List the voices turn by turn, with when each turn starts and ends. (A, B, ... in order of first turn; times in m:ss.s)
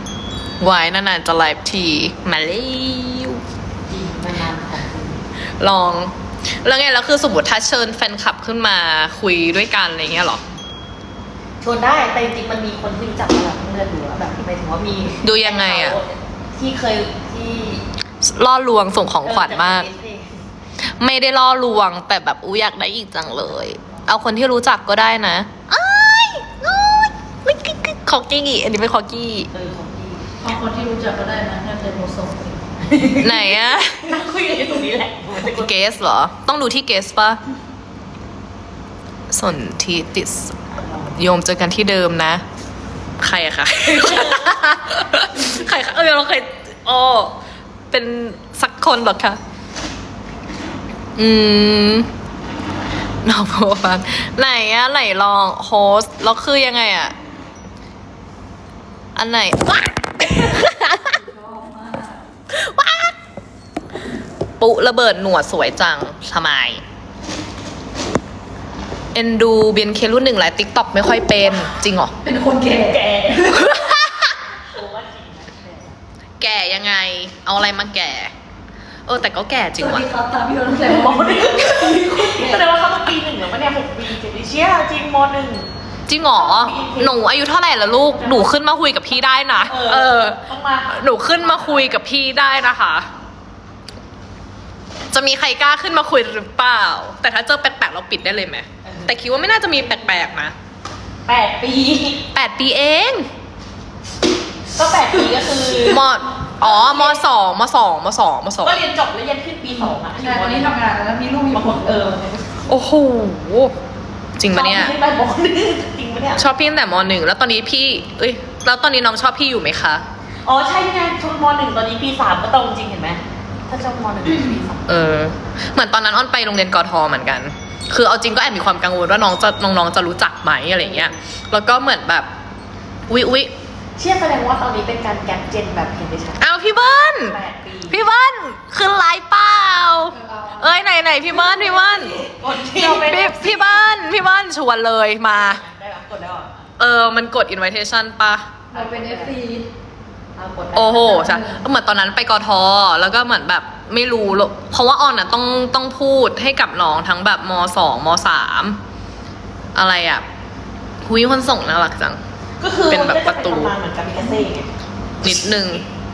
0:00.6-0:03.4 A
0:03.9-0:05.2 B
0:05.6-0:10.4 A
0:11.6-0:17.8 B
0:15.2-0:16.0 A
0:18.2-0:19.9 A
0:19.2-0:20.4 B
0:20.8-0:29.5 A
0:23.8-0:24.1 B
0:29.5-0:30.3 B
0:30.4-0:33.0 C
0:32.9-0:35.8 B
0:33.2-0:34.2 A
0:35.5-0:37.4 A
0:39.3-0:40.6 A
0:40.8-0:41.2 B
0:41.1-0:42.4 A
0:43.2-0:47.4 A
0:43.9-0:44.6 B
0:47.9-0:49.4 A
0:51.2-0:52.1 A
0:53.2-0:57.1 A
0:59.2-1:01.2 A
1:01.1-1:02.2 C
1:02.5-1:03.1 A
1:04.6-1:06.8 A
1:09.1-1:12.1 A
1:12.2-1:13.7 C
1:12.7-1:13.7 B
1:13.5-1:14.3 A
1:14.5-1:16.0 B
1:16.4-1:18.3 A
1:19.0-1:20.1 A
1:19.8-1:22.7 C
1:20.8-1:25.7 B
1:26.1-1:33.1 A
1:26.3-1:27.2 B
1:28.2-1:28.5 B
1:29.6-1:32.0 B
1:35.1-1:40.5 A
1:38.8-1:39.2 B
1:39.8-1:40.3 B
1:41.2-1:42.2 B
1:42.3-1:43.3 A
1:44.7-1:46.1 B
1:45.8-1:48.8 A
1:46.6-1:47.2 B
1:48.6-1:50.7 B
1:49.7-1:52.3 C
1:51.5-1:52.4 B
1:52.7-1:53.7 A
1:54.4-1:54.9 A
1:54.5-1:56.4 B
1:56.4-2:00.0 A
2:00.4-2:05.2 B
2:04.9-2:12.3 A
2:10.8-2:11.2 B
2:13.1-2:13.5 A
2:14.0-2:18.0 B
2:16.4-2:17.4 A
2:17.9-2:22.2 A
2:20.1-2:20.8 C
2:21.6-2:23.8 B
2:22.7-2:25.6 A
2:25.3-2:26.7 B
2:26.8-2:28.5 A
2:28.7-2:29.7 C
2:28.7-2:29.4 B
2:30.4-2:31.3 B
2:30.7-2:38.8 A
2:30.9-2:31.6 C
2:39.7-2:40.2 A
2:41.0-2:42.2 A
2:42.6-2:44.7 B
2:42.9-2:43.8 A
2:44.1-2:44.5 C
2:45.2-2:45.8 A